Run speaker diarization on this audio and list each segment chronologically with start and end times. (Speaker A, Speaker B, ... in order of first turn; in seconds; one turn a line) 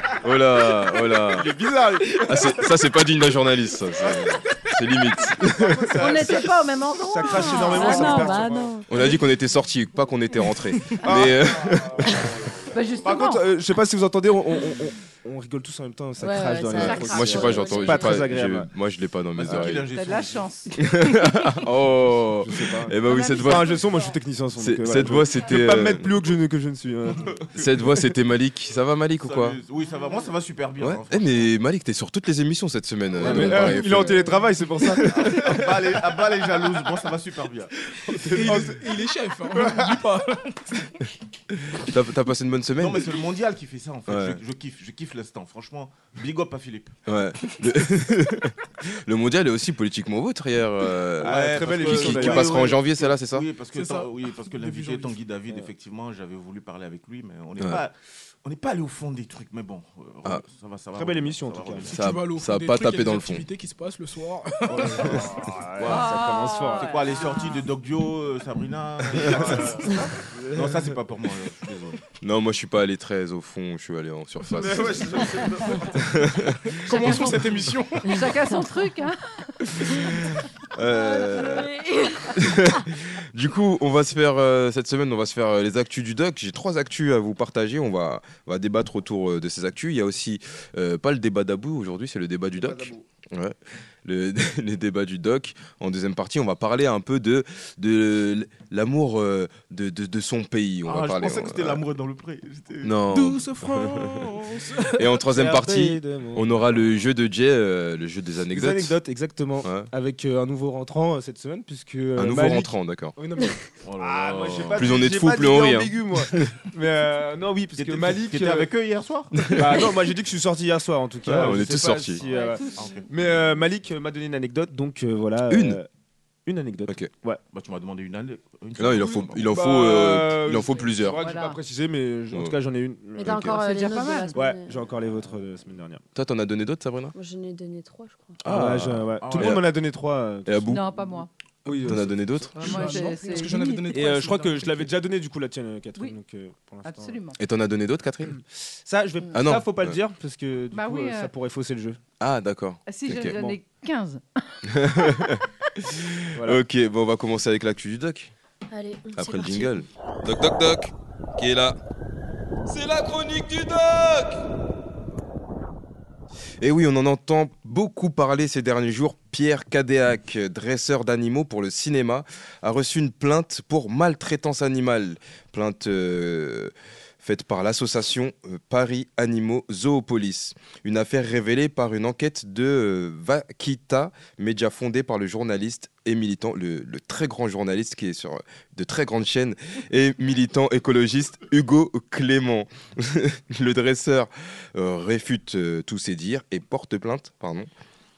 Speaker A: 0.2-1.5
Speaker B: 1.3-2.8
Speaker A: 2.2-6.1
Speaker B: 5.4-8.8
Speaker C: 6.0-8.5
Speaker D: 7.4-9.2
Speaker A: 8.9-12.3
Speaker B: 11.0-12.2
Speaker C: 12.7-13.5
Speaker B: 13.0-18.7
Speaker D: 16.2-18.3
Speaker C: 16.8-17.6
Speaker A: 16.9-19.9
Speaker E: 19.4-20.5
Speaker C: 19.8-20.8
Speaker A: 20.8-23.8
Speaker B: 22.3-28.0
Speaker C: 23.1-24.1
Speaker D: 23.1-23.5
Speaker A: 24.6-26.1
Speaker A: 27.6-29.6
Speaker E: 29.2-31.5
Speaker A: 30.8-34.3
Speaker B: 33.2-35.6
Speaker E: 33.2-33.9
Speaker A: 34.8-35.7
Speaker E: 35.1-37.7
Speaker B: 38.1-38.9
Speaker F: 38.3-40.9
Speaker B: 39.6-40.0
Speaker A: 41.6-43.1
Speaker E: 42.8-47.5
Speaker A: 44.1-44.4
Speaker A: 47.1-53.5
Speaker B: 51.2-52.7
Speaker E: 51.2-62.0
Speaker F: 53.7-55.2
Speaker A: 57.6-57.9
Speaker B: 60.9-61.9
Speaker F: 61.9-65.1
Speaker A: 61.9-63.5
Speaker B: 64.7-67.0
Speaker E: 64.8-66.1
Speaker C: 65.8-67.6
Speaker E: 66.8-72.0
Speaker A: 69.1-69.6
Speaker B: 69.2-71.0
Speaker A: 72.2-76.8
Speaker B: 74.5-76.0
Speaker F: 76.8-78.2
Speaker D: 76.9-78.9
Speaker C: 76.9-77.4
Speaker C: 78.1-79.9
Speaker A: 80.8-81.7
Speaker D: 81.0-82.3
Speaker A: 82.3-101.8
Speaker B: 92.6-92.9
Speaker E: 100.8-103.0
Speaker A: 102.8-104.3
Speaker F: 103.1-105.1
Speaker B: 104.8-107.0
Speaker A: 105.0-109.0
Speaker B: 108.5-118.7
Speaker A: 109.6-109.9
Speaker A: 112.2-113.2
Speaker E: 113.8-115.2
Speaker A: 114.7-116.6
Speaker E: 117.8-119.8
Speaker A: 119.4-119.7
Speaker B: 119.5-125.9
Speaker A: 121.2-122.2
Speaker C: 122.3-123.1
Speaker E: 122.7-123.1
Speaker A: 125.5-125.8
Speaker B: 126.5-127.4
Speaker E: 127.5-129.6
Speaker A: 128.8-131.2
Speaker B: 129.4-133.5
Speaker C: 131.1-131.6
Speaker D: 133.2-134.9
Speaker A: 133.2-133.6
Speaker C: 133.4-134.4
Speaker B: 134.3-136.0
Speaker A: 136.2-137.1
Speaker D: 137.1-138.5
Speaker A: 138.4-139.7
Speaker B: 138.4-140.8
Speaker E: 139.2-139.6
Speaker A: 140.5-140.8
Speaker C: 140.7-141.3
Speaker B: 141.7-142.5
Speaker A: 141.7-142.9
Speaker C: 142.6-144.0
Speaker F: 142.6-144.9
Speaker B: 143.9-147.2
Speaker C: 146.8-147.4
Speaker A: 147.4-148.4
Speaker B: 148.7-152.0
Speaker A: 149.3-150.0
Speaker C: 150.7-151.3
Speaker A: 152.2-153.5
Speaker C: 152.9-155.4
Speaker A: 154.7-158.3
Speaker B: 156.4-156.6
Speaker D: 158.7-159.8
Speaker A: 159.2-161.8
Speaker A: 162.7-164.4
Speaker A: 166.6-197.7